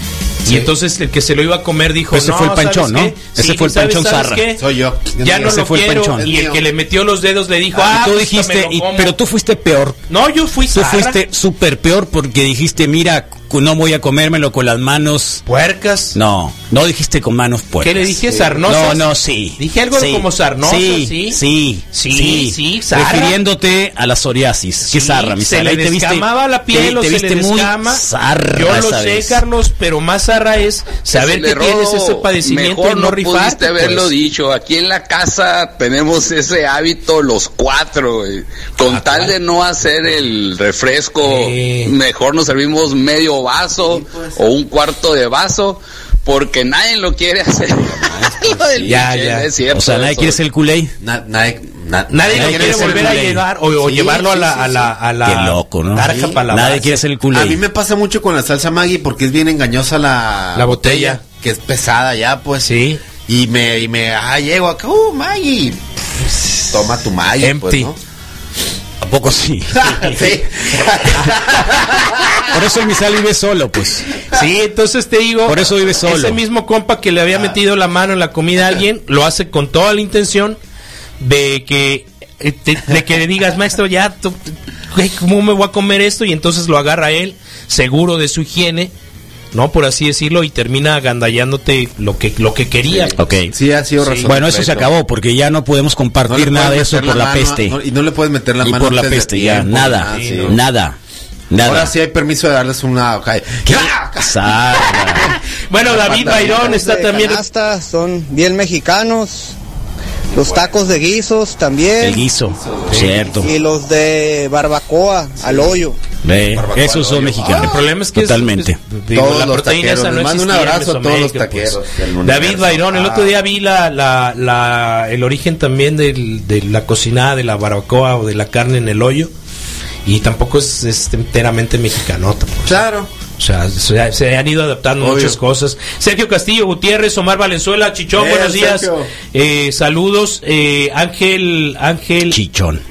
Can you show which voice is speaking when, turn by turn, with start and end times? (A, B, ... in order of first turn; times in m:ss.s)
0:00.4-0:00.7 A
0:00.4-0:04.6 B
0:02.1-0:04.4 C
0:04.6-0:06.6 A
0:05.2-0:09.1 B
0:05.4-0:06.3 C
0:07.8-0:10.0 C
0:10.1-0:11.2 B
0:10.7-0:15.4 C
0:15.5-0:16.2 B
0:16.1-0:18.2 C
0:17.8-0:23.4 B
0:18.3-0:18.6 A
0:18.7-0:29.4 C
0:24.9-0:33.9 B
0:31.1-0:50.4 D
0:39.0-0:39.3 C
0:41.2-0:41.9 B
0:43.8-0:44.4 A
0:48.0-0:49.0 A
0:48.8-0:49.5 B
0:49.7-0:50.9 C
0:51.0-0:54.9 A
0:52.1-0:57.0 B
0:52.3-0:53.4 C
0:55.2-0:57.6 C
0:56.1-0:56.4 A
0:57.3-1:05.8 A
1:00.6-1:01.2 B
1:02.6-1:03.0 B
1:06.7-1:08.0 A
1:07.4-1:07.9 B
1:09.0-1:10.2 C
1:09.7-1:12.4 A
1:12.4-1:14.1 C
1:14.3-1:20.6 B
1:15.5-1:16.4 C
1:21.2-1:24.4 B
1:24.9-1:28.9 B
1:29.5-1:33.2 B
1:32.9-1:34.9 A
1:33.2-1:33.5 C
1:34.0-1:34.3 B
1:34.3-1:37.8 C
1:36.3-1:40.6 A
1:38.6-1:41.0 C
1:40.1-1:40.6 B
1:41.5-1:41.9 C
1:41.6-1:44.4 A
1:43.7-1:45.3 C
1:45.7-1:47.4 B
1:45.8-1:46.9 A
1:46.3-1:49.6 E
1:50.3-1:52.2 E
1:50.4-1:50.7 A
1:52.0-1:53.5 C
1:52.5-1:53.3 A
1:53.4-1:56.0 E
1:55.4-1:55.8 A
1:56.2-1:58.8 C
1:56.5-1:57.8 A
1:57.5-2:09.3 B
1:59.1-2:03.4 A
2:10.1-2:12.8 B
2:12.6-2:13.1 A
2:13.4-2:22.4 B
2:15.0-2:15.4 A
2:18.1-2:19.1 A
2:22.3-2:22.8 C